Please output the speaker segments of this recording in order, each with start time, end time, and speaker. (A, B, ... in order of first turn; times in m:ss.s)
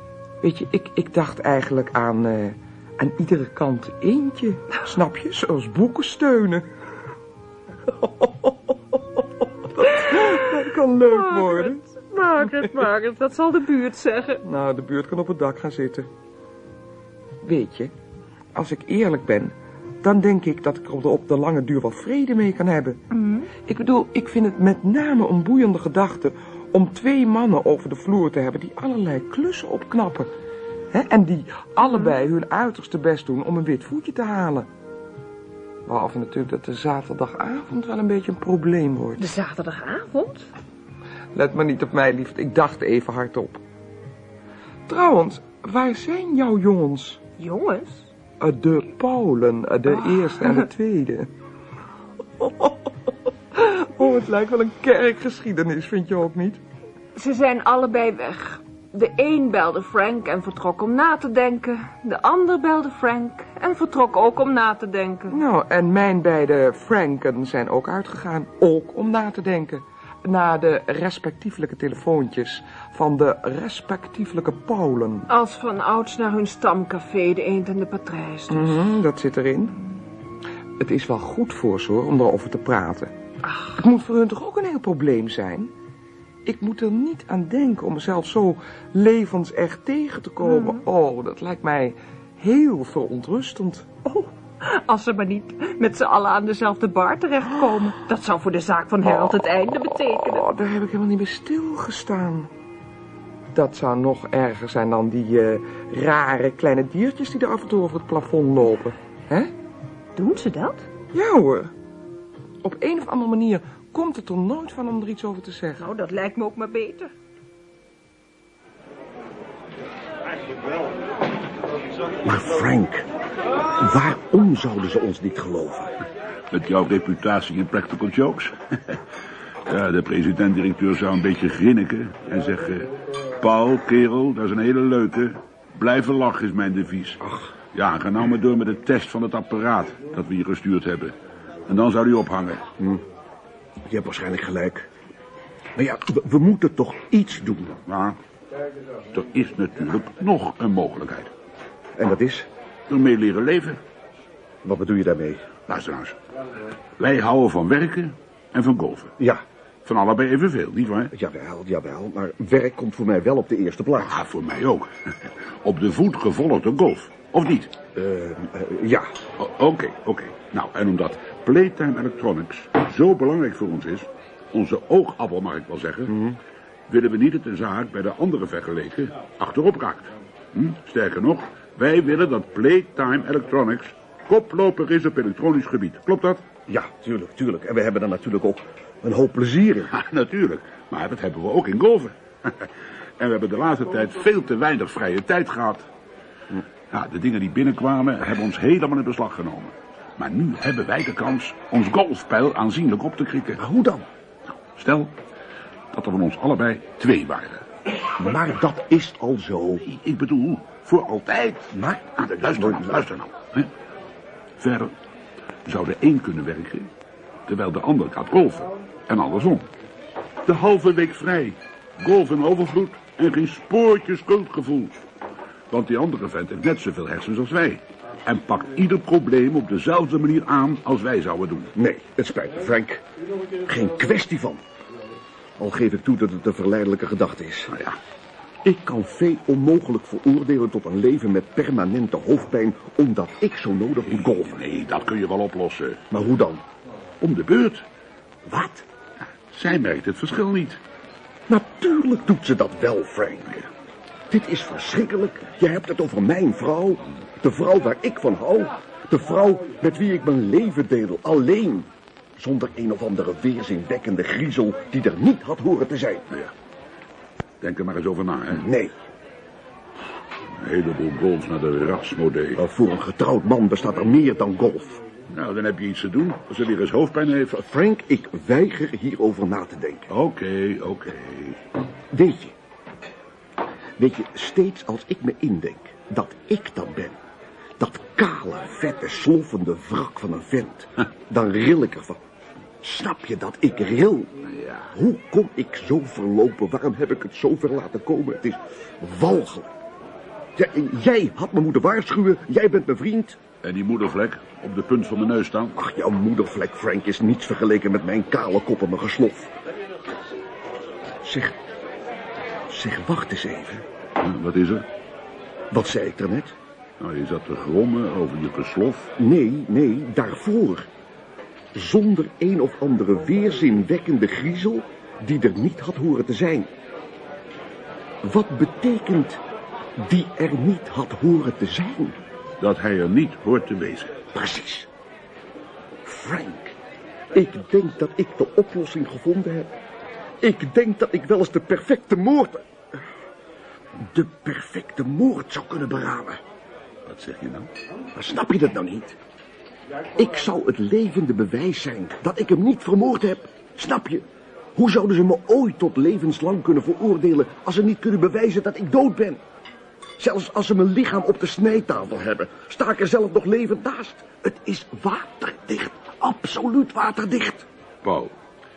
0:00.4-0:06.7 A
0:07.9-0:11.8 A
0:09.8-0:10.5 B
0:11.0-0:14.4 B
0:14.4-0:16.1 A
0:17.4-0:17.9 A
0:18.5-0:23.0 A
0:23.1-0:23.5 B
0:23.6-0:30.3 A
0:30.9-0:34.7 A
0:31.8-0:32.1 B
0:35.9-0:39.2 A
0:39.2-0:40.5 B
0:41.3-0:43.6 A
0:44.9-0:47.2 A
0:47.4-0:48.1 B
0:48.4-0:51.3 A
0:50.2-0:50.6 B
0:52.4-0:56.6 A
0:57.1-1:05.4 B
1:05.3-1:15.2 A
1:15.3-1:18.8 B
1:18.5-1:19.8 A
1:20.8-1:23.1 A
1:23.4-1:23.8 B
1:23.8-1:25.7 A
1:26.4-1:33.9 A
1:30.4-1:30.8 B
1:34.0-1:40.5 B
1:40.2-1:42.5 A
1:43.5-1:49.5 A
1:50.2-1:50.9 B
1:51.1-1:51.7 A
1:52.6-1:55.8 A
1:55.8-1:57.1 B
2:02.2-2:03.1 C
2:03.6-2:06.0 C
2:06.5-2:09.0 D
2:09.6-2:17.2 D
2:17.2-2:17.5 C
2:17.7-2:21.1 D
2:21.7-2:22.6 D
2:22.8-2:23.0 C
2:23.8-2:24.9 C
2:25.8-2:27.8 C
2:27.8-2:28.2 D
2:29.1-2:31.3 D
2:32.0-2:32.5 C
2:32.9-2:33.8 D
2:34.6-2:35.6 C
2:35.7-2:36.2 D
2:37.0-2:39.1 D
2:39.8-2:41.1 D
2:41.1-2:44.2 C
2:44.0-2:47.7 D
2:47.9-2:49.1 C
2:49.4-2:56.1 D
2:56.1-2:56.4 C
2:56.9-3:06.4 D
3:06.7-3:09.9 C
3:09.9-3:15.9 D
3:16.9-3:23.6 D
3:23.6-3:24.0 C
3:24.7-3:25.1 D
3:25.9-3:27.6 D
3:28.2-3:29.8 C
3:29.8-3:33.7 D
3:31.7-3:33.1 C
3:34.6-3:34.9 D
3:35.6-3:36.9 D
3:37.5-3:39.7 D
3:40.4-3:45.0 D
3:45.7-3:51.7 D
3:51.7-3:53.0 C
3:53.6-3:54.6 C
3:55.6-3:57.8 C
3:58.6-4:04.6 C
4:04.1-4:06.1 D
4:06.1-4:06.6 C
4:07.2-4:07.8 D
4:08.4-4:08.8 C
4:09.5-4:10.8 D
4:11.5-4:13.6 C
4:14.3-4:26.2 C
4:27.6-4:28.7 D
4:28.5-4:28.9 C
4:30.5-4:32.6 D
4:32.6-4:35.0 C
4:35.3-4:37.5 D
4:37.5-4:40.1 C
4:40.1-4:41.6 D
4:42.1-4:42.5 C
4:44.0-4:47.2 C
4:47.8-4:52.2 C
4:52.8-4:59.7 C
4:54.5-4:54.9 D
5:00.6-5:03.4 C
5:03.6-5:05.8 D
5:05.8-5:09.5 C
5:11.2-5:11.6 C
5:12.7-5:13.8 C
5:14.2-5:14.8 D
5:15.7-5:16.6 C
5:17.0-5:19.1 D
5:19.2-5:20.9 C
5:21.7-5:26.7 C
5:28.2-5:29.4 C
5:30.0-5:32.2 C
5:32.6-5:34.2 D
5:34.3-5:34.9 C
5:36.0-5:36.8 C
5:37.3-5:39.7 C
5:40.4-5:43.0 C
5:44.0-5:46.4 C
5:47.0-5:47.7 D
5:48.1-5:49.2 C
5:50.1-5:59.4 C
6:00.2-6:07.7 C
6:08.0-6:08.3 D